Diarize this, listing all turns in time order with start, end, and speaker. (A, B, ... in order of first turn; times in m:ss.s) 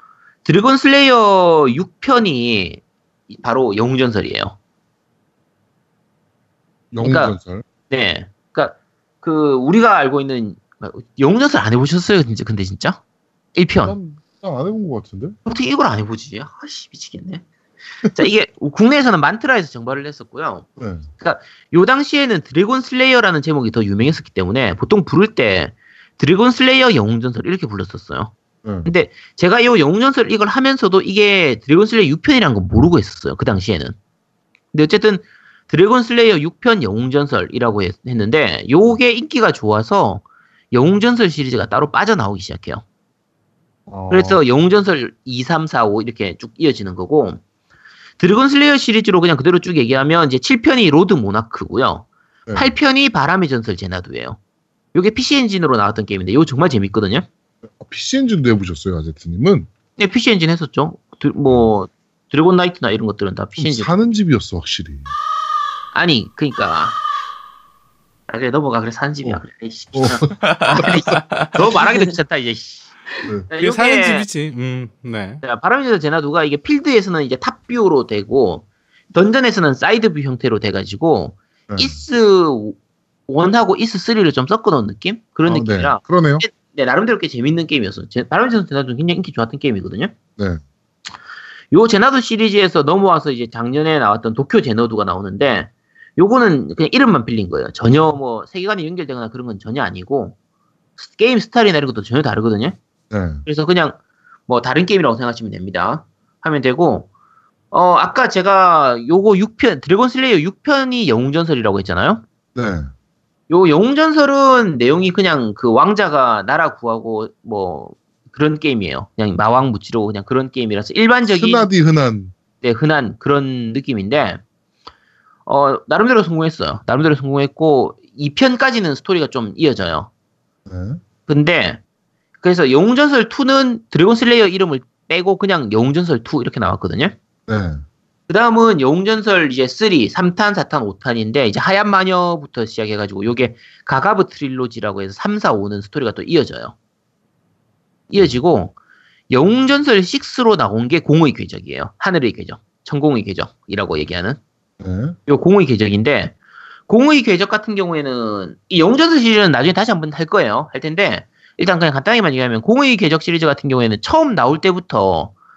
0:00.4-0:04.6 A
0:06.9-0:07.6 B
0:07.0-0:07.4 A
0:07.9-0:13.0 A
0:13.6-0:14.0 A
0:13.8-0:15.4 B
0:15.4-0:17.4 A
0:18.1-0:20.7 A
0:20.8-0:21.1 B
0:21.2-0:28.3 A
0:28.6-0:28.9 B
0:28.8-0:34.0 A
0:34.7-0:42.8 A
0:43.9-0:44.4 B
0:44.1-0:47.4 A
0:48.2-0:54.4 A
0:54.9-0:57.3 A
0:57.8-0:59.7 B
1:00.0-1:03.9 A
1:03.6-1:05.1 B
1:05.9-1:07.0 A
1:08.3-1:12.8 A
1:09.9-1:11.0 B
1:10.4-1:11.5 C
1:13.5-1:14.3 A
1:13.6-1:15.4 C
1:15.4-1:22.8 A
1:21.7-1:22.0 B
1:23.3-1:30.1 A
1:25.5-1:26.4 B
1:31.7-1:40.4 A
1:41.0-1:42.8 A
1:43.1-1:43.4 B
1:43.4-1:47.1 A
1:47.7-1:52.2 A
1:52.6-1:52.9 B
1:53.5-2:01.7 A
2:01.3-2:02.3 B
2:02.6-2:04.4 A
2:05.5-2:10.1 A
2:10.7-2:11.0 B
2:11.3-2:11.8 A
2:12.4-2:17.2 A
2:17.5-2:17.8 B
2:18.3-2:26.7 A
2:28.1-2:28.7 A
2:29.3-2:34.4 A
2:34.8-2:35.2 B
2:35.3-2:36.4 A
2:36.9-2:45.3 A